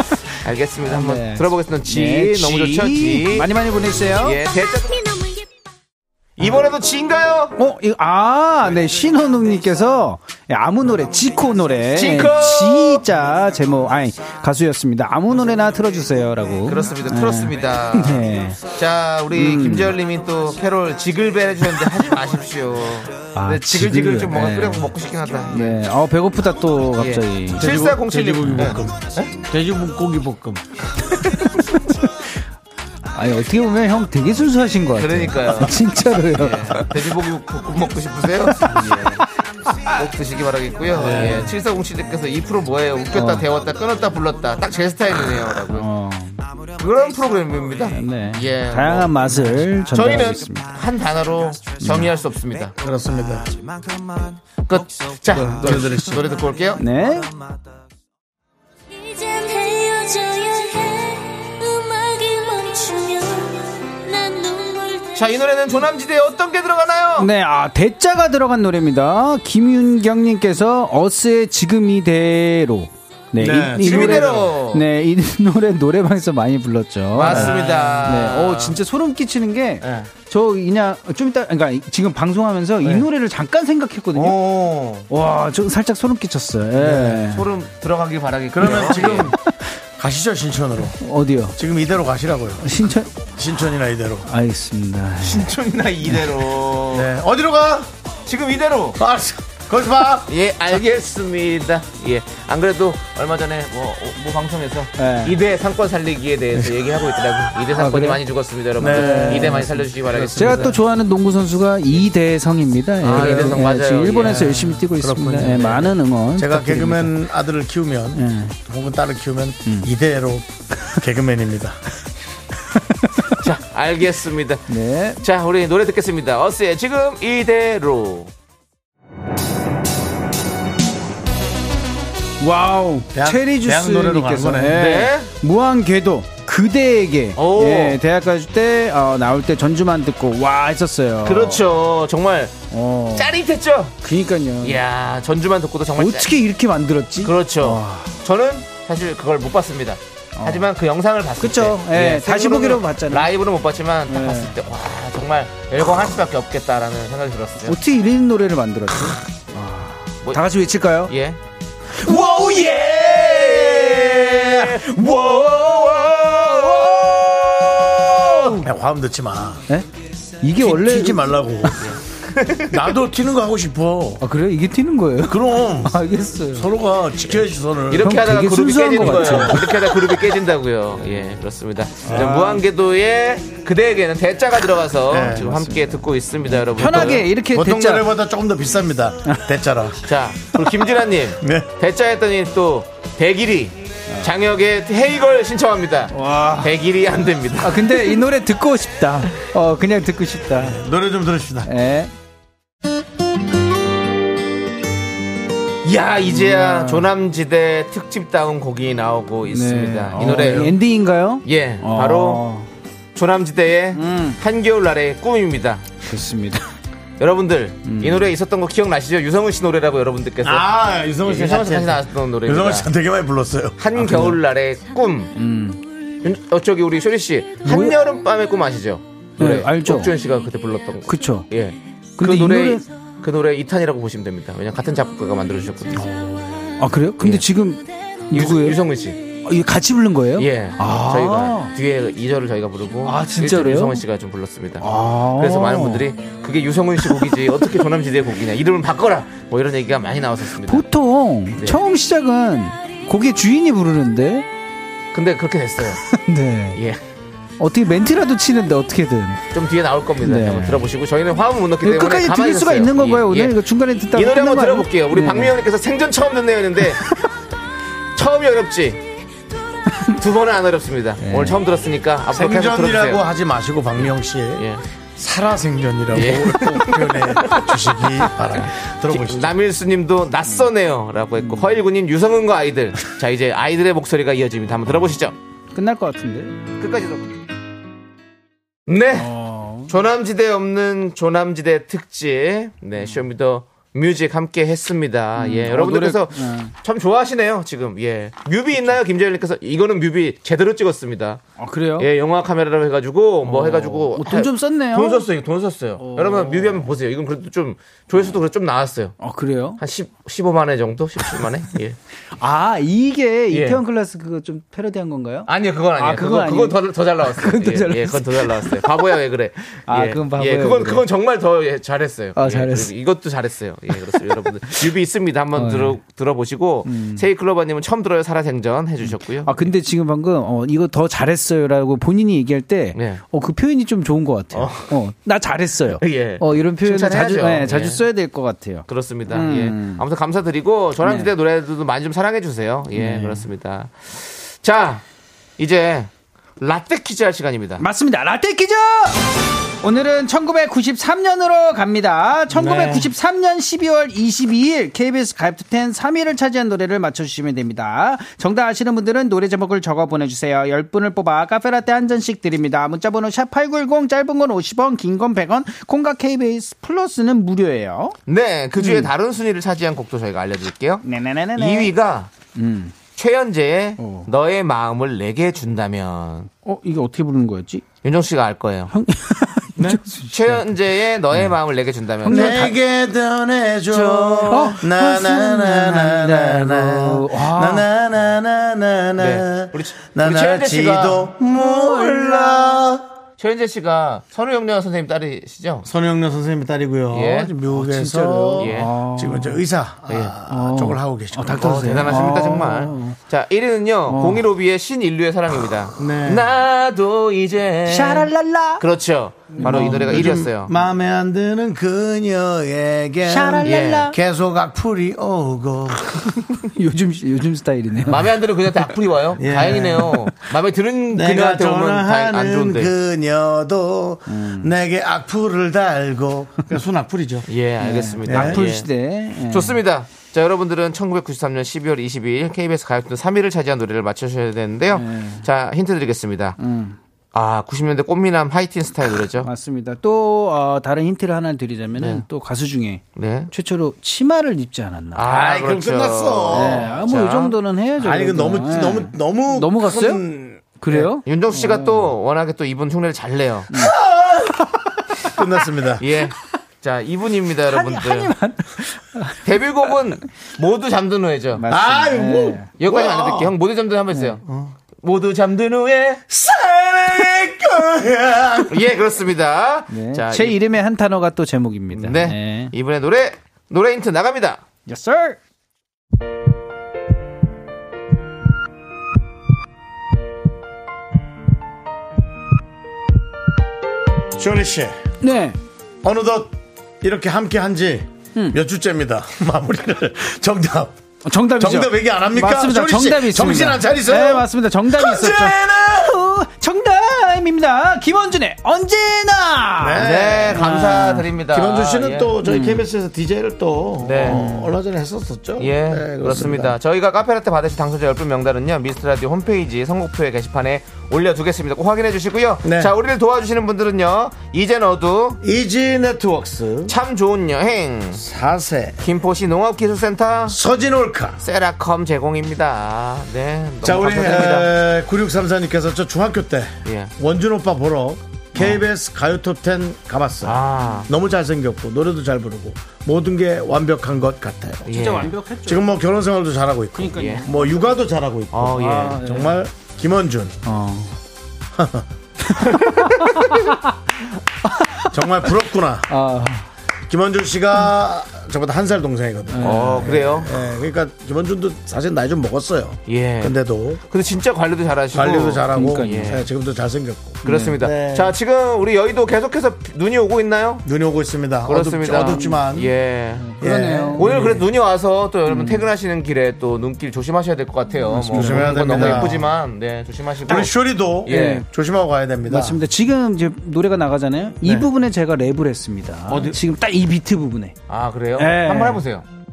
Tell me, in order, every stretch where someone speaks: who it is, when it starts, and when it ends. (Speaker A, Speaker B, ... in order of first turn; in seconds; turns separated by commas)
Speaker A: 0.3-3.5, Speaker B: 0.8-4.4, Speaker A: 4.2-5.0, Speaker A: 6.4-7.6, Speaker B: 7.6-18.6, Speaker A: 11.9-13.1, Speaker A: 16.6-25.8, Speaker B: 19.3-20.0, Speaker B: 23.3-24.9, Speaker B: 25.5-27.8, Speaker A: 27.0-29.3, Speaker C: 27.6-30.6, Speaker B: 31.1-32.1, Speaker B: 33.1-37.0, Speaker A: 34.9-35.8, Speaker A: 36.3-39.2, Speaker B: 38.6-39.2, Speaker A: 39.9-45.9, Speaker C: 41.0-41.5, Speaker B: 43.1-43.5, Speaker B: 45.7-46.5, Speaker A: 46.8-52.7, Speaker B: 47.9-50.7, Speaker B: 51.8-52.1, Speaker C: 52.7-53.6, Speaker A: 54.6-56.9, Speaker C: 55.3-56.2, Speaker B: 55.3-56.1, Speaker B: 56.8-57.3, Speaker D: 59.1-65.1, Speaker A: 65.1-67.3, Speaker B: 67.2-84.4, Speaker C: 73.4-74.5, Speaker A: 73.8-74.9, Speaker A: 77.1-78.8, Speaker C: 77.2-77.6, Speaker C: 84.2-85.1, Speaker B: 85.1-87.5, Speaker C: 86.8-87.2, Speaker A: 87.2-89.3, Speaker C: 88.5-89.4, Speaker C: 90.0-91.0, Speaker B: 91.0-91.5, Speaker C: 91.6-92.7, Speaker B: 92.6-93.1, Speaker C: 93.4-94.3, Speaker B: 94.2-95.5, Speaker A: 95.2-97.1, Speaker C: 96.9-97.9, Speaker A: 98.3-99.0, Speaker C: 99.0-100.3, Speaker A: 100.3-110.8, Speaker B: 105.0-105.4, Speaker B: 107.7-108.2, Speaker C: 108.8-109.7, Speaker B: 108.8-117.2, Speaker A: 113.0-114.6, Speaker C: 113.0-113.5, Speaker C: 114.2-121.8, Speaker B: 118.2-118.6, Speaker B: 119.7-119.9, Speaker B: 122.7-123.1, Speaker A: 123.3-128.3, Speaker B: 124.7-125.2, Speaker B: 132.4-141.6, Speaker C: 133.1-134.8, Speaker A: 134.7-135.3, Speaker A: 137.3-138.0, Speaker A: 141.2-142.6, Speaker B: 142.7-143.4, Speaker A: 143.1-144.0, Speaker B: 144.0-144.8, Speaker A: 144.6-146.3, Speaker B: 146.0-148.1, Speaker A: 147.2-157.8, Speaker B: 150.4-150.7, Speaker B: 151.4-153.3, Speaker B: 154.1-154.5, Speaker B: 157.7-161.1, Speaker A: 160.2-160.5, Speaker A: 161.1-161.4, Speaker C: 162.0-165.2, Speaker B: 162.1-162.6, Speaker A: 162.5-168.5, Speaker B: 168.2-168.7, Speaker C: 168.6-169.6, Speaker B: 170.4-171.8, Speaker C: 170.6-171.8, Speaker A: 171.8-172.8, Speaker C: 172.7-174.2, Speaker B: 174.2-176.7, Speaker C: 175.2-178.2, Speaker A: 177.9-187.3, Speaker B: 178.0-180.0, Speaker C: 182.1-182.6, Speaker B: 182.1-182.5, Speaker C: 185.1-185.7, Speaker B: 185.4-188.1, Speaker C: 187.5-190.0, Speaker A: 190.0-198.1, Speaker C: 191.4-191.7, Speaker B: 196.1-196.7, Speaker B: 197.6-200.8, Speaker C: 200.6-201.7, Speaker B: 201.7-202.1, Speaker A: 205.8-210.8, Speaker B: 206.2-207.1, Speaker B: 209.5-212.7, Speaker C: 210.2-210.6, Speaker A: 211.4-212.4, Speaker A: 213.2-215.9, Speaker B: 213.9-214.4, Speaker B: 216.1-216.7, Speaker A: 217.2-220.7, Speaker B: 217.8-218.3, Speaker C: 220.4-224.3, Speaker A: 221.2-222.9, Speaker A: 223.8-225.3, Speaker B: 225.4-225.8, Speaker A: 226.2-236.1, Speaker B: 227.6-228.0, Speaker B: 229.4-230.1, Speaker B: 231.1-231.5, Speaker B: 232.2-232.8, Speaker C: 236.0-236.5, Speaker B: 236.8-241.7, Speaker A: 237.2-237.4, Speaker A: 238.3-239.2, Speaker A: 240.4-250.9, Speaker B: 243.1-244.0, Speaker B: 244.8-246.1, Speaker B: 247.1-247.3, Speaker B: 250.7-254.5, Speaker A: 251.6-251.8, Speaker A: 255.1-256.0, Speaker B: 256.0-256.8, Speaker A: 256.8-257.0, Speaker B: 257.6-259.4, Speaker A: 259.5-263.6, Speaker B: 260.2-260.9, Speaker B: 261.8-265.6, Speaker A: 264.1-267.1, Speaker A: 268.1-269.0, Speaker A: 270.1-273.2, Speaker B: 271.2-271.6, Speaker C: 272.3-274.6, Speaker A: 274.0-274.8, Speaker C: 275.2-279.5, Speaker A: 276.1-277.8, Speaker A: 278.6-285.4, Speaker B: 281.4-281.8, Speaker B: 285.7-286.5, Speaker A: 286.8-287.4, Speaker A: 288.9-289.3, Speaker B: 289.2-289.9, Speaker A: 289.9-301.4, Speaker B: 295.4-296.7, Speaker B: 301.6-302.1, Speaker A: 302.0-309.1, Speaker B: 303.4-305.3, Speaker B: 306.0-306.9, Speaker B: 309.2-309.8, Speaker A: 309.8-312.0, Speaker B: 312.4-319.0, Speaker A: 313.5-313.8, Speaker A: 315.5-329.7, Speaker B: 319.9-321.1, Speaker B: 322.4-322.9, Speaker B: 324.1-324.9, Speaker B: 325.6-326.0, Speaker B: 326.9-327.3, Speaker B: 329.0-340.0, Speaker A: 332.9-333.2, Speaker A: 334.5-335.0, Speaker A: 336.0-338.0, Speaker A: 338.9-345.0, Speaker B: 341.0-341.3, Speaker B: 342.9-343.5, Speaker A: 345.6-347.9, Speaker B: 347.8-349.2, Speaker B: 349.8-368.1, Speaker C: 352.5-353.1, Speaker A: 368.3-371.1, Speaker B: 368.8-369.1, Speaker B: 371.0-371.9, Speaker A: 371.6-372.3, Speaker B: 372.5-372.9, Speaker A: 373.2-376.5, Speaker B: 374.0-374.3, Speaker B: 376.6-377.9, Speaker A: 378.0-378.9, Speaker B: 378.9-380.6, Speaker A: 379.8-382.7, Speaker B: 382.2-382.8, Speaker C: 382.3-393.0, Speaker A: 383.9-384.8, Speaker B: 384.5-387.9, Speaker A: 389.2-392.8, Speaker A: 393.4-395.9, Speaker C: 395.9-402.3, Speaker A: 397.1-397.5, Speaker B: 397.7-399.6, Speaker A: 398.6-399.0, Speaker B: 400.5-403.2, Speaker A: 401.5-410.7, Speaker B: 404.1-404.4, Speaker C: 406.0-406.5, Speaker B: 407.9-408.8, Speaker B: 409.6-410.3, Speaker C: 409.6-416.0, Speaker B: 413.3-414.2, Speaker A: 413.6-414.1, Speaker B: 416.6-418.4, Speaker A: 418.1-422.9, Speaker C: 419.4-420.3, Speaker C: 421.1-427.5, Speaker B: 424.3-424.7, Speaker A: 427.5-436.6, Speaker B: 427.8-429.8, Speaker C: 428.3-428.6, Speaker B: 434.9-435.5, Speaker B: 436.6-437.0, Speaker A: 437.3-439.5, Speaker B: 439.4-445.4, Speaker A: 442.0-442.2, Speaker A: 443.2-443.5, Speaker A: 445.1-447.6, Speaker C: 445.3-447.0, Speaker B: 446.5-450.2, Speaker C: 448.0-451.1, Speaker B: 450.8-452.1, Speaker A: 451.2-453.9, Speaker C: 453.8-454.6, Speaker B: 454.8-455.4, Speaker C: 455.2-456.0, Speaker A: 456.0-458.3, Speaker B: 457.7-459.9, Speaker A: 459.4-461.7, Speaker B: 461.6-462.7, Speaker C: 461.7-463.5, Speaker A: 462.8-464.4, Speaker B: 464.1-464.4, Speaker C: 464.4-464.7, Speaker A: 465.0-466.2, Speaker C: 466.3-468.8, Speaker A: 468.7-470.6, Speaker B: 469.9-472.7, Speaker A: 471.9-474.6, Speaker B: 474.9-475.4, Speaker C: 484.4-485.0, Speaker B: 485.2-485.6, Speaker C: 486.0-490.9, Speaker B: 491.3-501.3, Speaker C: 491.5-496.2, Speaker C: 499.8-500.7, Speaker A: 499.9-502.3, Speaker C: 501.5-506.8, Speaker B: 502.4-502.9, Speaker A: 504.0-504.5, Speaker B: 504.2-504.7, Speaker A: 505.6-515.4, Speaker C: 512.6-512.9, Speaker C: 515.4-517.0, Speaker A: 516.9-518.2, Speaker C: 518.2-519.0, Speaker A: 519.0-520.6, Speaker C: 520.5-521.4, Speaker A: 521.4-524.7, Speaker C: 523.8-535.0, Speaker A: 526.9-527.1, Speaker A: 530.5-531.1, Speaker A: 534.9-535.4, Speaker B: 534.9-535.9, Speaker C: 535.6-540.6, Speaker B: 537.0-538.0, Speaker A: 537.1-537.5, Speaker A: 538.5-539.2, Speaker B: 538.7-539.6, Speaker B: 540.6-541.2, Speaker C: 541.8-542.1, Speaker B: 542.5-543.9, Speaker A: 542.7-543.6, Speaker B: 544.6-545.5, Speaker C: 545.1-546.1, Speaker B: 546.1-546.7, Speaker C: 547.1-554.0, Speaker B: 549.5-550.4, Speaker A: 549.6-550.5, Speaker A: 553.1-556.5, Speaker C: 555.1-558.4, Speaker B: 555.7-556.5, Speaker B: 557.4-557.8, Speaker A: 557.5-560.9, Speaker C: 560.9-562.9, Speaker A: 561.6-563.5, Speaker B: 562.1-562.6, Speaker B: 563.4-564.5, Speaker C: 563.6-564.6, Speaker A: 564.1-570.7, Speaker B: 565.5-565.9, Speaker B: 568.1-569.4, Speaker C: 568.3-569.5, Speaker C: 570.5-572.8, Speaker A: 571.3-571.6, Speaker B: 571.3-571.7, Speaker B: 572.5-577.8, Speaker C: 574.6-574.9, Speaker C: 576.3-576.6, Speaker A: 577.9-579.2, Speaker B: 578.4-579.0